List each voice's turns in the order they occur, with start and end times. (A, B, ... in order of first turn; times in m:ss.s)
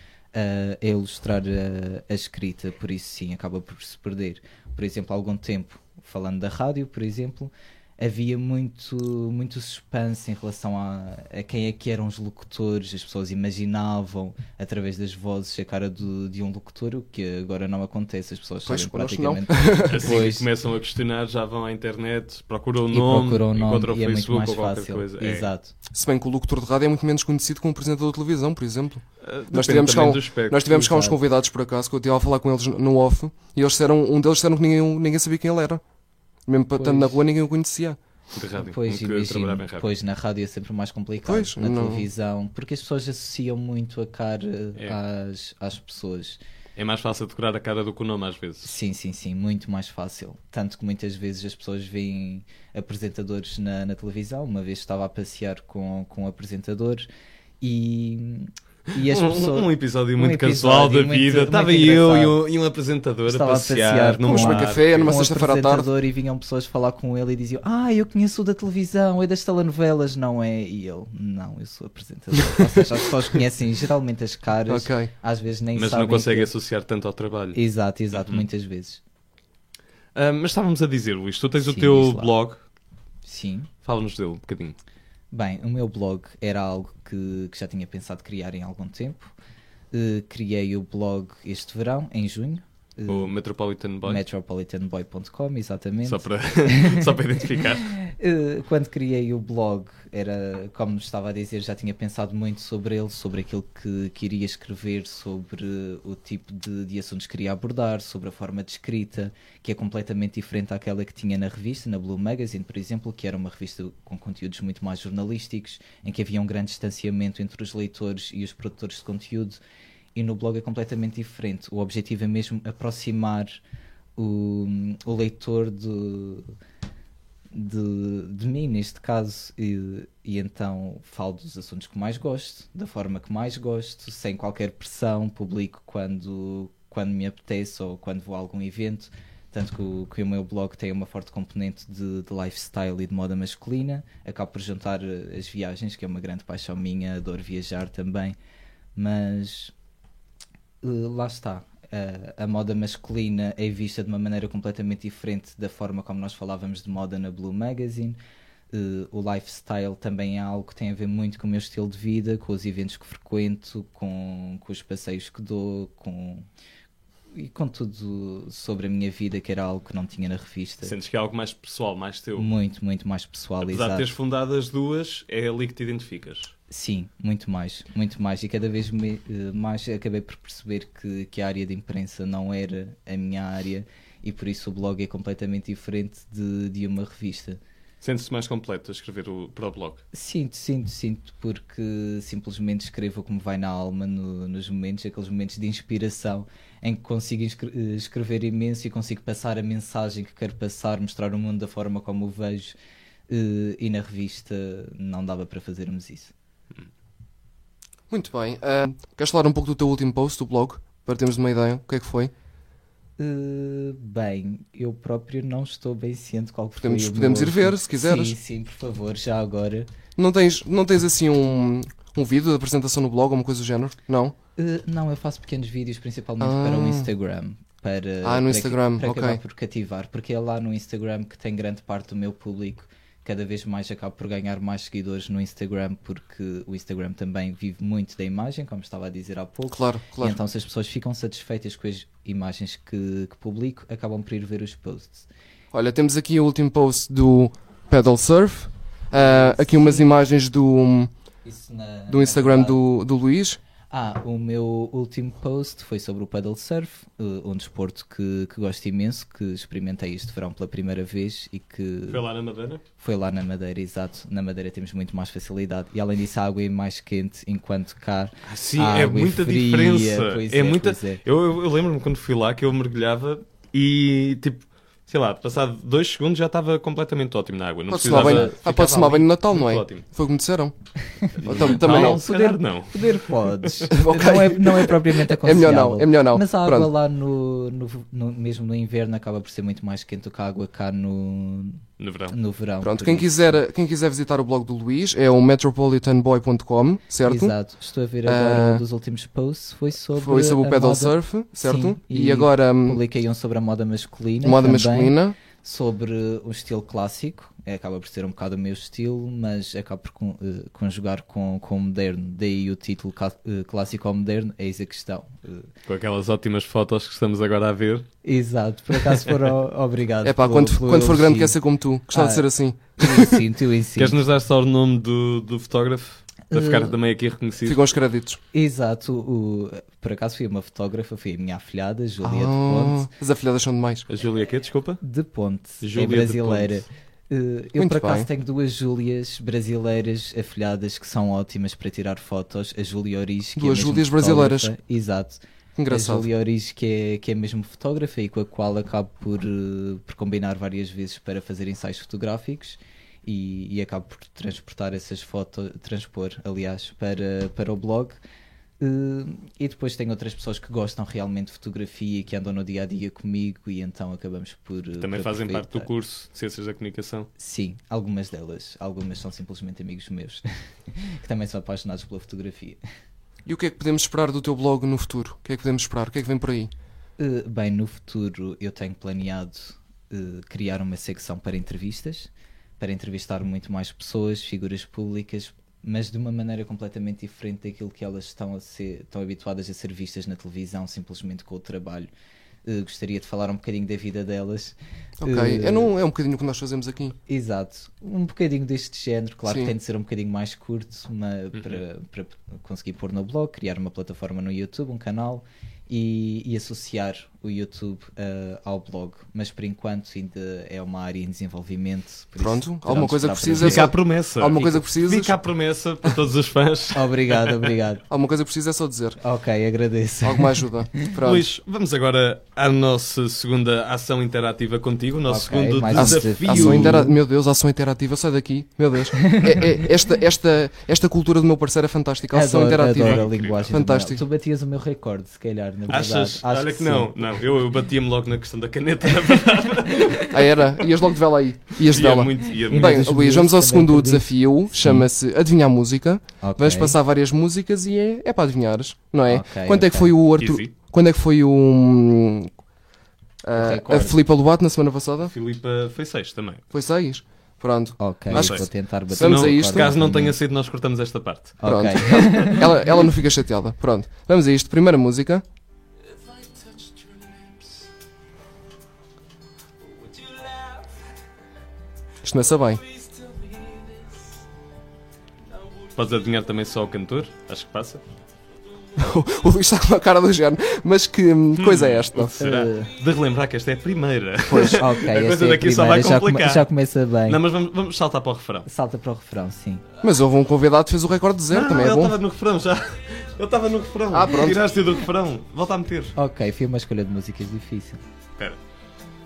0:00.3-0:20.5 A
0:18.6-0:20.2 B
0:19.9-0:25.5 C
0:22.9-0:25.7 A
0:25.9-0:35.8 B
0:29.2-0:31.1 C
0:36.4-0:38.0 B
0:36.8-0:37.2 A
0:38.3-0:39.9 C
0:38.6-0:46.4 A
0:41.2-0:42.0 B
0:46.8-0:48.7 C
0:48.6-0:57.1 A
0:57.6-1:02.4 A
0:59.1-1:05.2 C
1:03.3-1:16.5 A
1:04.2-1:05.9 B
1:14.7-1:15.1 B
1:15.7-1:17.6 C
1:17.5-1:19.0 A
1:18.1-1:18.4 C
1:20.1-1:22.6 C
1:21.6-1:22.3 A
1:23.2-1:23.7 A
1:23.8-1:24.8 C
1:25.3-1:29.3 A
1:29.9-1:33.3 A
1:33.1-1:34.2 C
1:34.0-1:59.6 A
1:36.0-1:38.0 C
2:00.1-2:03.6 A
2:04.2-2:06.5 A
2:07.5-2:28.4 A
2:29.0-2:29.7 A
2:30.8-2:38.2 A
2:38.7-2:46.5 A
2:47.3-2:50.9 A
2:50.8-2:52.5 C
2:52.4-2:54.1 A
2:53.6-2:56.5 C
2:56.7-3:07.6 A
3:08.0-3:10.0 C
3:10.1-3:22.8 A
3:23.3-3:26.3 A
3:28.1-3:32.3 B
3:33.2-3:39.9 A
3:36.8-3:38.3 B
3:40.2-3:44.3 B
3:44.6-4:05.3 A
3:46.4-3:47.1 B
3:48.2-3:49.4 B
3:59.7-4:00.4 B
4:05.7-4:11.1 B
4:09.1-4:10.1 A
4:11.4-4:12.8 A
4:12.1-4:13.6 B
4:13.9-4:22.2 A
4:22.1-4:22.8 C
4:23.0-4:31.2 A
4:28.4-4:40.0 C
4:37.9-4:40.7 B
4:38.0-4:38.6 A
4:41.1-4:53.6 A
4:41.4-4:43.2 C
4:41.4-4:42.2 B
4:43.9-4:46.9 B
4:52.0-4:52.3 C
4:52.8-4:57.5 B
4:57.2-5:15.7 A
4:58.2-4:58.8 B
5:00.2-5:03.0 B
5:04.4-5:05.4 B
5:15.9-5:18.1 C
5:18.2-5:21.6 A
5:20.2-5:23.4 B
5:22.1-5:24.2 A
5:24.0-5:27.8 C
5:26.5-5:26.9 A
5:27.6-5:28.4 B
5:28.5-5:33.1 A
5:32.2-5:34.1 B
5:34.1-5:35.0 C
5:35.0-5:58.2 A
5:35.8-5:36.8 C
5:37.8-5:38.3 B
5:43.6-5:44.7 B
5:45.8-5:46.3 B
5:58.8-6:05.9 A
6:05.0-6:07.3 C
6:07.4-6:12.8 A
6:13.4-6:16.7 B
6:17.2-6:32.1 A
6:32.6-6:35.9 A
6:35.2-6:37.2 B
6:37.3-6:53.9 A
6:39.5-6:39.7 B
6:52.4-6:55.3 B
6:53.5-6:57.7 C
6:56.9-6:58.0 A
6:58.1-6:59.2 B
6:59.2-7:01.1 A
7:00.2-7:01.5 B
7:01.2-7:07.0 C
7:05.3-7:07.1 A
7:05.9-7:14.2 B
7:09.2-7:09.8 A
7:12.3-7:17.4 A
7:13.0-7:13.7 C
7:15.9-7:20.4 C
7:20.3-7:32.5 B
7:21.8-7:23.0 C
7:22.7-7:25.1 A
7:26.4-7:27.0 A
7:29.3-7:30.1 A
7:30.4-7:30.7 C
7:33.4-7:35.3 B
7:33.5-7:34.2 A
7:35.3-7:36.6 C
7:36.7-7:39.9 B
7:38.0-7:40.4 A
7:38.3-7:41.6 C
7:41.6-7:42.7 A
7:41.6-7:45.4 B
7:52.2-7:52.8 B
7:55.9-7:58.0 C
7:59.0-8:02.4 B
8:01.6-8:06.7 C
8:02.4-8:02.9 A
8:04.5-8:04.8 B
8:04.5-8:07.4 A
8:07.3-8:08.7 C
8:08.6-8:09.8 A
8:10.0-8:12.2 B
8:11.5-8:16.1 C
8:14.1-8:14.6 B
8:16.1-8:18.0 A